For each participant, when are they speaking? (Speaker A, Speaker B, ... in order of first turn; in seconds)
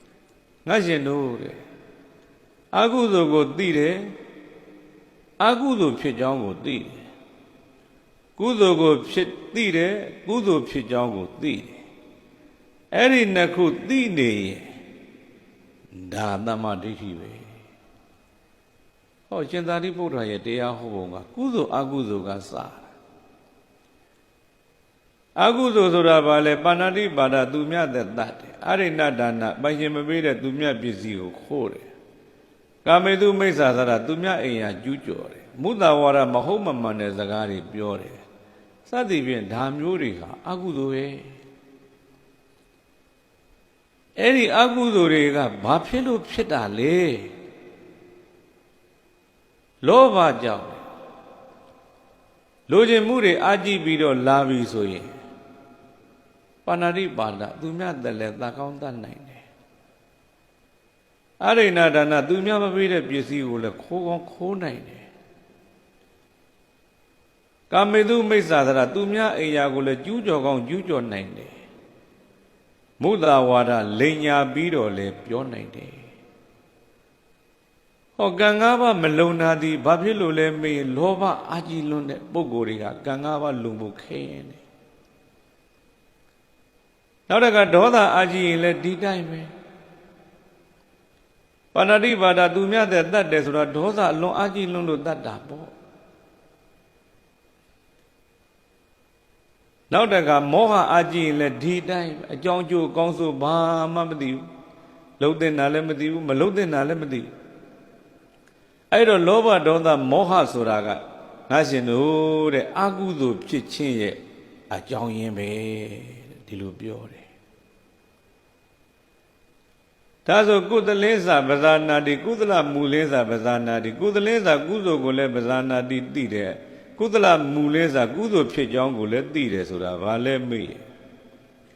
Speaker A: 0.7-1.6, 2.7-4.1, 5.4-7.1, 8.4-11.8, 12.9-14.7, 15.9-17.6, 19.3-22.9, 25.4-31.9, 32.9-38.2, 38.9-41.4, 44.2-47.3, 49.8-50.8, 52.7-55.1, 56.6-59.5, 61.4-65.1, 67.7-71.6, 73.0-76.1, 78.2-84.6, 87.3-89.5, 91.7-95.7, 99.9-104.5, 105.2-107.3, 108.9-114.2, 114.7-117.3, 120.3-130.8